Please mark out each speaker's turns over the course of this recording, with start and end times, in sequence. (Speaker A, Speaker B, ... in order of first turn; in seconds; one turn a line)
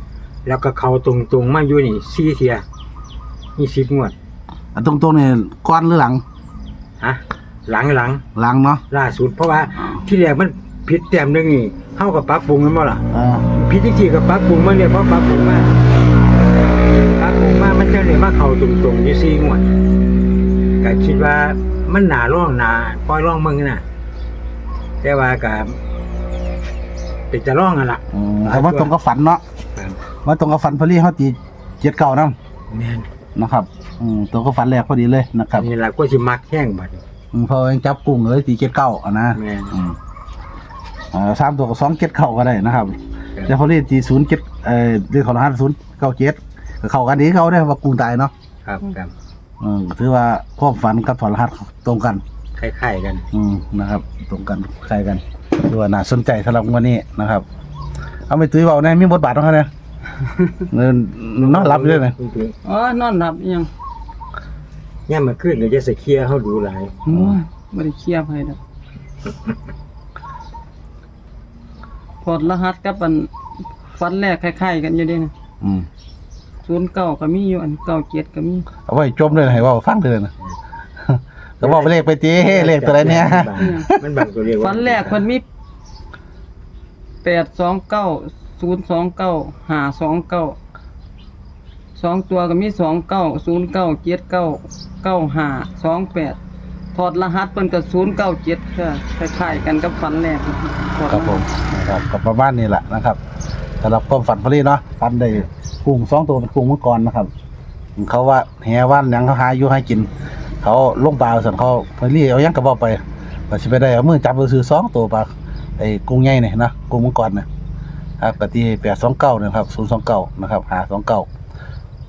Speaker A: 0.5-2.6
Speaker A: 3.6-4.2
Speaker B: 4.8-6.2
Speaker A: 7.0-8.2
Speaker B: 8.4-8.8
Speaker A: 8.9-15.8
Speaker B: 13.1-13.5
Speaker A: 17.2-19.7
Speaker A: 20.8-23.9
Speaker A: 25.0-25.8
Speaker A: 27.3-28.9
Speaker B: 28.1-29.4
Speaker B: 30.2-32.4
Speaker A: 32.7-33.1
Speaker B: 33.4-35.7
Speaker A: 35.5-37.0
Speaker B: 37.3-40.0
Speaker A: 39.3-39.8
Speaker B: 41.1-48.3
Speaker A: 48.6-49.1
Speaker B: 49.6-52.2
Speaker A: 52.6-53.3
Speaker B: 53.3-57.5
Speaker B: 58.3-59.7
Speaker B: 60.7-62.1
Speaker A: 61.4-62.6
Speaker C: 62.6-63.7
Speaker A: 65.1-67.1
Speaker B: 67.1-67.4
Speaker C: 67.2-68.6
Speaker C: 72.2-73.3
Speaker C: 74.0-75.3
Speaker B: 75.6-75.9
Speaker C: 76.6-78.7
Speaker B: 78.8-80.3
Speaker B: 81.0-84.0
Speaker A: 81.6-85.2
Speaker C: 83.2-83.9
Speaker C: 84.6-85.4
Speaker C: 87.2-90.6
Speaker C: 92.0-96.4
Speaker C: 96.9-101.4
Speaker B: 101.1-103.2
Speaker B: 103.8-107.3
Speaker B: 108.0-110.1
Speaker B: 110.6-117.5
Speaker B: 118.2-121.3